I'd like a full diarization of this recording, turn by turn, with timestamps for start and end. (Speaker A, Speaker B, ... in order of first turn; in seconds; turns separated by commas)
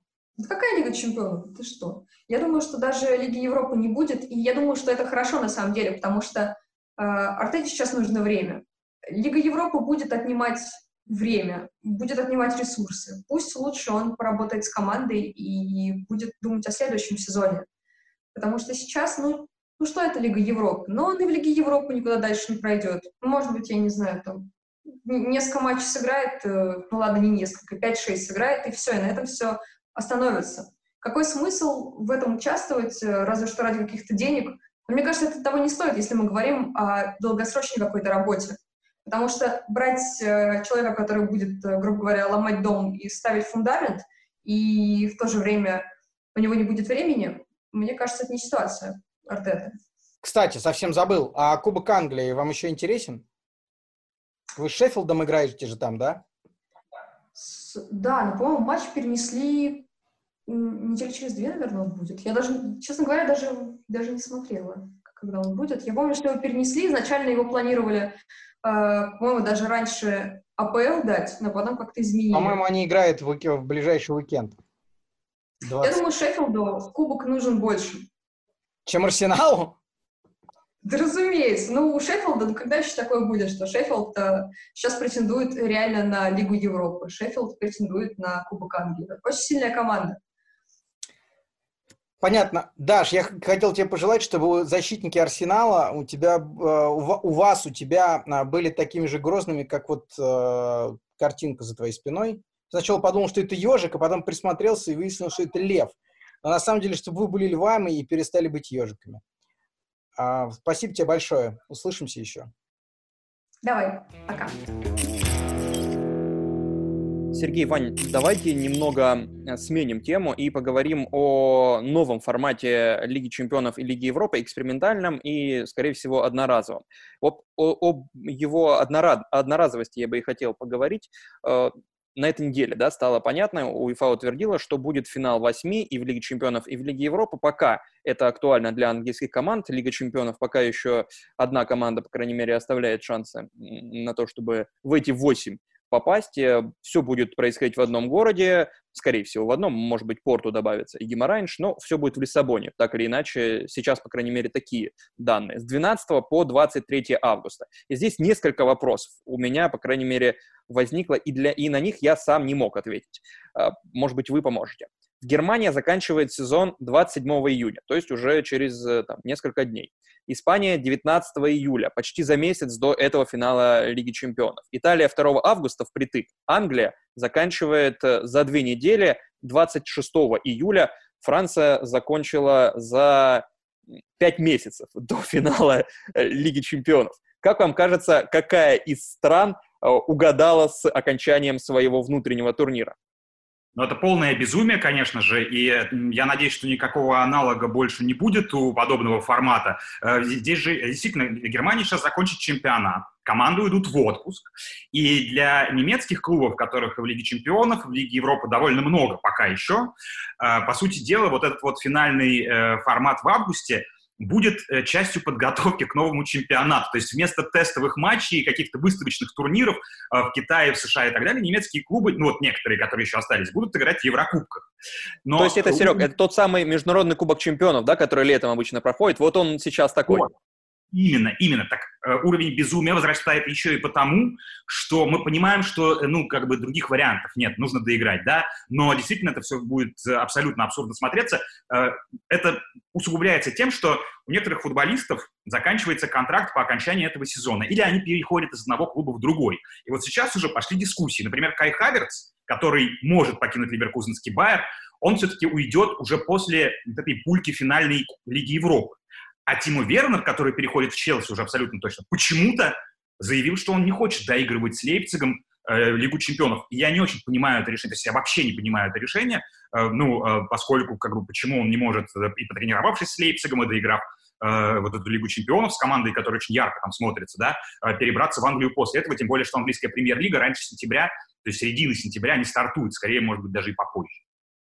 Speaker A: 0.4-17.6, Speaker A: 18.3-24.5, Speaker A: 25.0-49.7, Speaker B: 50.2-53.2, Speaker B: 54.5-56.2, Speaker A: 57.3-59.9, Speaker A: 60.5-72.6, Speaker B: 72.3-74.6, Speaker B: 75.6-76.0, Speaker A: 75.8-78.1, Speaker B: 78.8-79.8, Speaker A: 80.8-90.2, Speaker B: 92.2-109.2, Speaker B: 110.2-112.5, Speaker A: 113.6-114.5, Speaker C: 117.3-183.4, Speaker C: 184.2-192.9, Speaker D: 193.8-224.7, Speaker D: 225.2-226.1, Speaker C: 225.4-230.2, Speaker D: 230.9-284.2